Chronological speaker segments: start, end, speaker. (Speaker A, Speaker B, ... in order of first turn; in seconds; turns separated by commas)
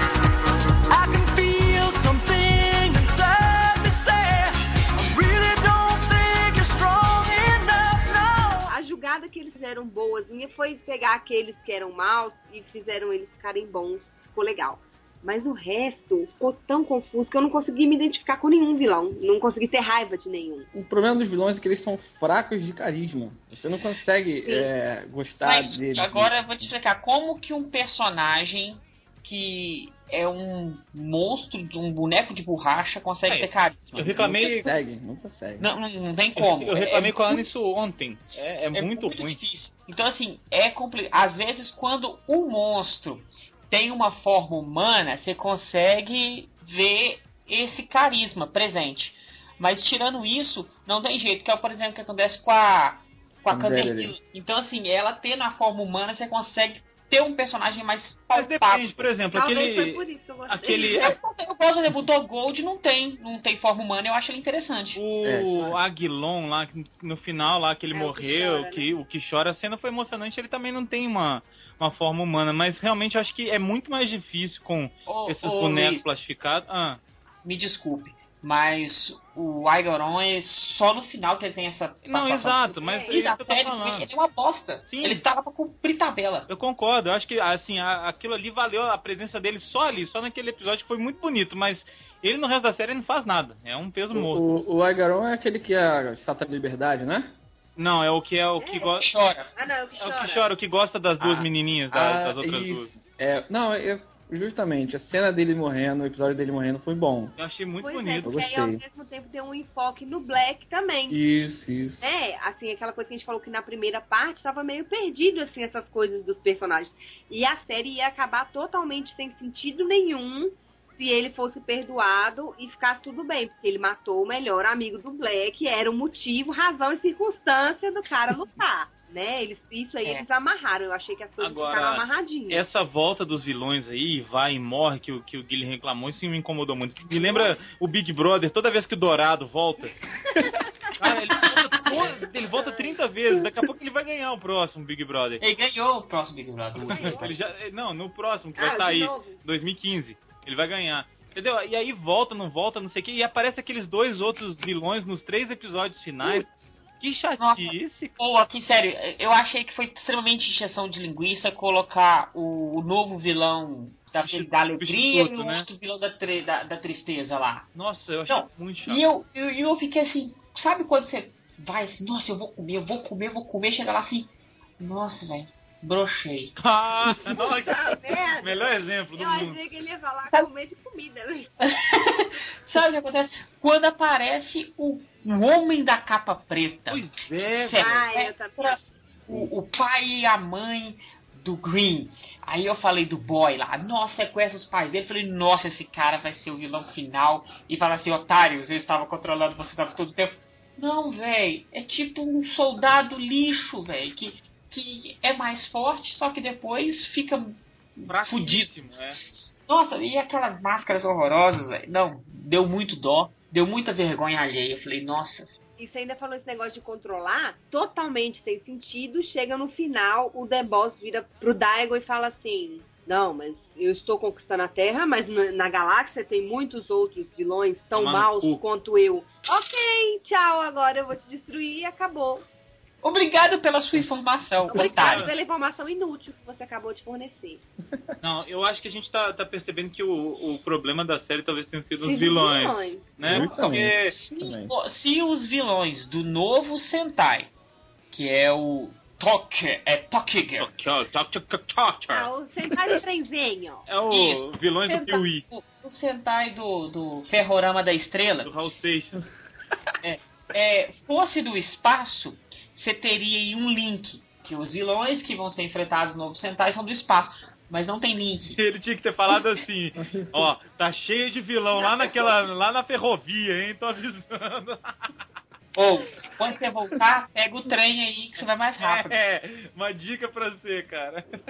Speaker A: 0.9-8.7, Speaker B: 8.7-20.7, Speaker C: 20.7-26.7, Speaker B: 24.4-24.7, Speaker D: 25.4-34.7, Speaker E: 33.2-34.7, Speaker C: 34.0-35.7, Speaker D: 35.6-37.5, Speaker E: 36.4-39.4, Speaker D: 38.3-59.2, Speaker C: 53.5-54.1, Speaker E: 58.3-61.1, Speaker B: 59.3-61.0, Speaker D: 60.8-65.0, Speaker E: 64.9-77.0, Speaker C: 65.2-65.8, Speaker B: 67.9-68.9, Speaker D: 75.0-76.1, Speaker D: 77.4-86.5, Speaker E: 82.1-84.1, Speaker B: 82.8-83.2, Speaker E: 84.9-85.2, Speaker E: 86.5-94.5, Speaker C: 94.1-97.3, Speaker E: 97.8-99.1, Speaker B: 98.6-98.9, Speaker D: 98.9-99.5, Speaker B: 99.5-100.5, Speaker E: 100.0-102.9, Speaker C: 101.3-107.3, Speaker E: 107.4-108.4, Speaker B: 107.8-111.2, Speaker C: 108.2-108.8, Speaker C: 111.1-112.1, Speaker B: 112.0-132.7, Speaker E: 131.4-139.9, Speaker B: 140.4-140.9, Speaker E: 141.0-145.4, Speaker B: 141.9-143.0, Speaker D: 145.4-147.4, Speaker E: 146.8-156.5, Speaker B: 146.9-147.3, Speaker B: 148.6-149.4, Speaker E: 157.0-158.1, Speaker D: 157.4-167.7, Speaker E: 164.3-165.7, Speaker E: 167.7-169.0, Speaker D: 168.3-176.5, Speaker E: 176.6-179.6, Speaker B: 177.3-181.5, Speaker D: 181.6-208.7, Speaker E: 186.9-187.8, Speaker B: 187.8-188.9, Speaker E: 208.1-209.2, Speaker D: 209.7-215.5, Speaker B: 215.8-232.4, Speaker E: 227.9-228.6, Speaker D: 233.0-235.3, Speaker B: 234.7-237.6, Speaker E: 234.7-235.3, Speaker E: 238.2-244.1, Speaker B: 242.0-243.2, Speaker C: 243.2-244.7, Speaker D: 243.2-247.5, Speaker D: 248.1-250.7, Speaker E: 250.6-252.3, Speaker B: 252.1-253.9, Speaker E: 253.8-255.4, Speaker D: 254.1-258.5, Speaker E: 258.4-259.2, Speaker D: 260.0-268.6, Speaker E: 268.6-275.1, Speaker C: 270.0-270.4, Speaker D: 275.7-279.1, Speaker E: 278.8-281.2